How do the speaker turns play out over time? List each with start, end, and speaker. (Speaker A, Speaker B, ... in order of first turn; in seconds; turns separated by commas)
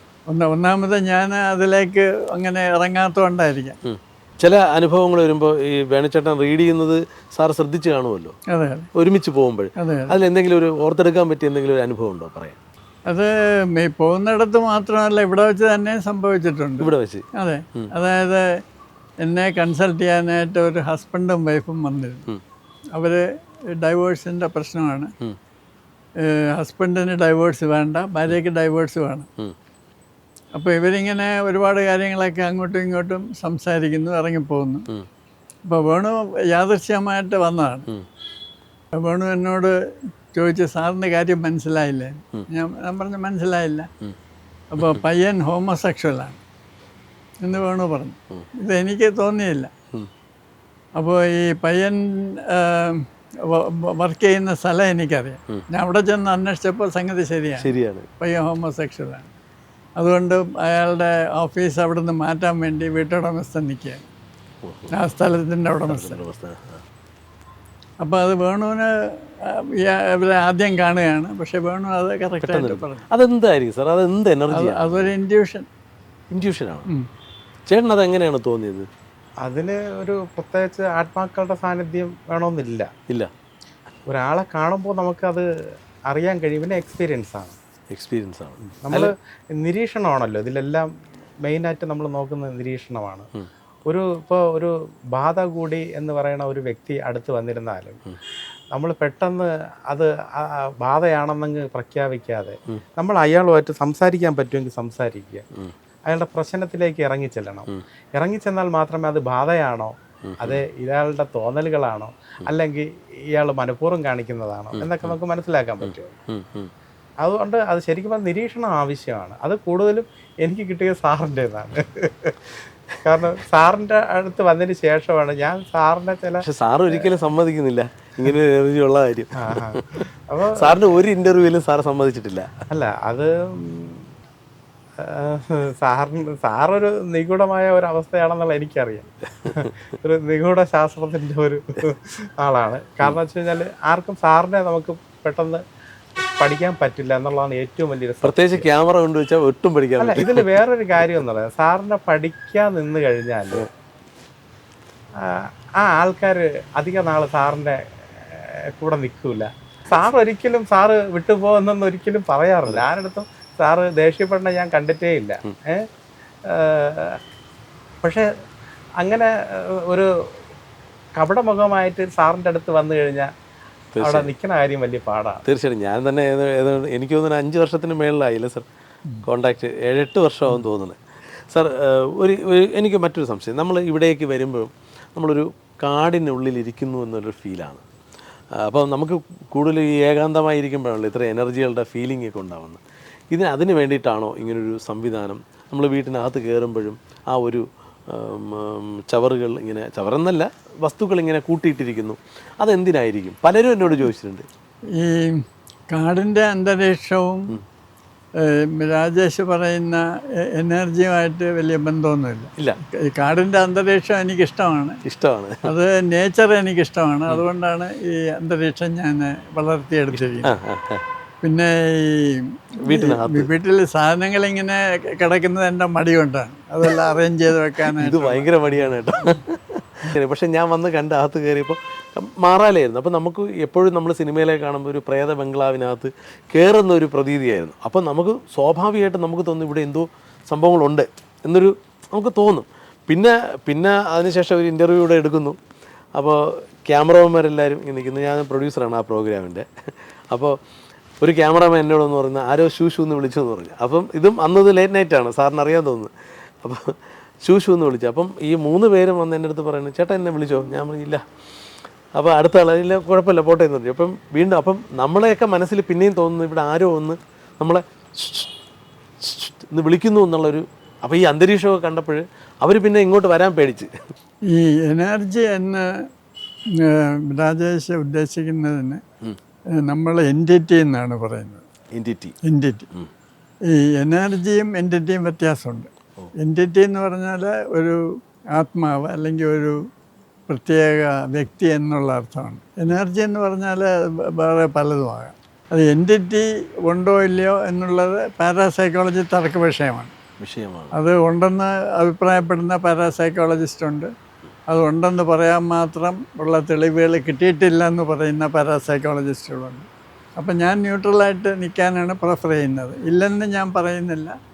Speaker A: 0.3-3.8, Speaker B: 3.9-8.3, Speaker A: 8.5-8.9, Speaker B: 8.9-12.6, Speaker A: 9.8-10.2, Speaker A: 13.1-18.4, Speaker B: 16.8-17.9, Speaker A: 19.2-22.3, Speaker A: 23.0-25.1, Speaker A: 26.2-29.3, Speaker A: 30.6-34.9, Speaker A: 35.7-37.9, Speaker A: 39.0-39.7, Speaker A: 40.3-43.9, Speaker A: 44.7-46.4, Speaker A: 47.4-49.7, Speaker A: 51.0-59.3, Speaker B: 57.6-58.1, Speaker A: 60.0-64.0, Speaker B: 64.6-64.9, Speaker A: 64.9-66.2, Speaker B: 65.8-66.8, Speaker A: 68.0-73.0, Speaker B: 72.4-75.1, Speaker A: 74.5-75.7, Speaker B: 76.3-76.9, Speaker B: 77.7-78.9, Speaker C: 79.4-82.9, Speaker C: 84.1-85.5, Speaker C: 86.1-87.6, Speaker B: 87.9-89.1, Speaker C: 88.8-90.9, Speaker C: 91.4-93.3, Speaker C: 93.9-98.0, Speaker C: 98.7-105.4, Speaker C: 106.1-116.2, Speaker B: 110.3-110.6, Speaker B: 114.8-115.2, Speaker B: 115.8-116.7, Speaker C: 117.2-127.2, Speaker B: 126.4-132.7, Speaker C: 129.4-131.0, Speaker C: 132.7-134.1, Speaker C: 135.0-145.6, Speaker C: 146.4-148.7, Speaker B: 148.2-150.5, Speaker C: 150.0-153.7, Speaker C: 155.2-165.8, Speaker C: 166.5-167.2, Speaker C: 169.0-170.1, Speaker C: 171.2-173.3, Speaker B: 173.9-174.3, Speaker C: 174.0-175.4, Speaker B: 175.5-178.7, Speaker B: 179.2-181.0, Speaker B: 181.5-187.8, Speaker B: 188.6-204.5, Speaker A: 205.0-207.6, Speaker A: 208.4-210.0, Speaker A: 210.6-215.0, Speaker B: 215.1-215.7, Speaker A: 215.7-220.5, Speaker B: 220.2-221.0, Speaker A: 221.4-228.5, Speaker B: 222.8-223.5, Speaker B: 227.9-245.6, Speaker B: 246.2-250.6, Speaker B: 251.2-256.1, Speaker B: 256.6-256.9, Speaker B: 257.4-261.2, Speaker B: 262.2-268.5, Speaker B: 269.2-273.9, Speaker A: 274.5-275.9, Speaker A: 276.8-279.0, Speaker A: 279.8-281.6, Speaker B: 281.9-282.4, Speaker A: 282.4-282.9, Speaker A: 283.7-288.0, Speaker A: 288.6-289.8, Speaker A: 290.5-300.1, Speaker B: 300.4-301.0, Speaker A: 300.9-304.1, Speaker A: 304.7-309.9, Speaker A: 310.4-314.4